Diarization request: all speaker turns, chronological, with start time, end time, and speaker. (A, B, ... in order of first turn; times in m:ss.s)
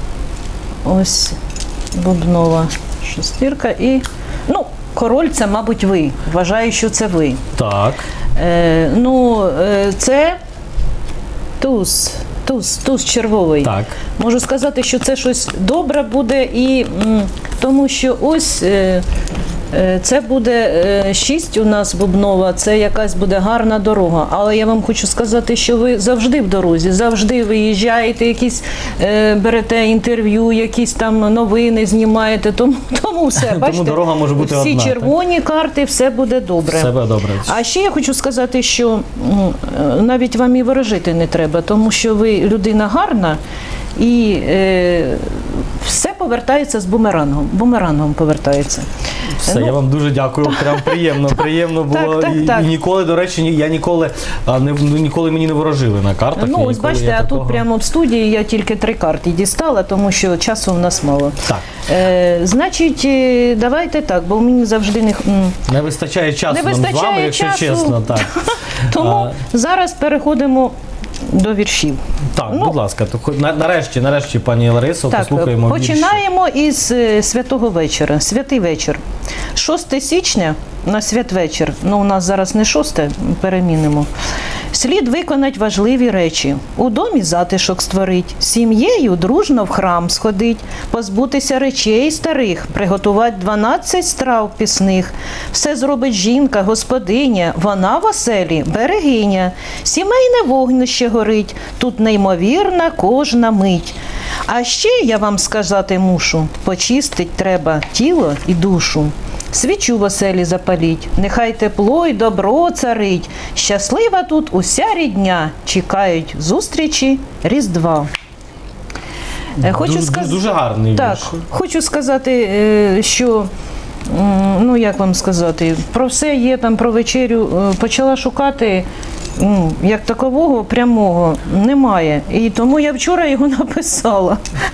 0:00.8-0:01.4 A
0:01.9-0:07.4 A
0:07.6-0:08.0 B
0:08.4-0:10.4 A
0:11.6-0:19.0 A
0:13.6-0:14.0 B
0:19.7-0:36.9 A
0:33.4-0:35.1 B
0:36.7-0:37.6 B
0:37.4-0:43.4 A
0:44.0-0:48.9 A
0:49.4-0:57.6 B
0:49.4-0:49.8 A
0:50.4-0:52.7 A
0:56.4-1:05.6 A
1:05.7-1:08.3 B
1:06.5-1:12.8 A
1:08.9-1:09.3 B
1:12.3-1:16.2 B
1:15.1-1:19.0 A
1:19.5-1:24.1 A
1:24.7-1:58.1 A
1:59.6-2:01.3 B
1:59.6-2:03.5 A
2:04.1-2:14.4 A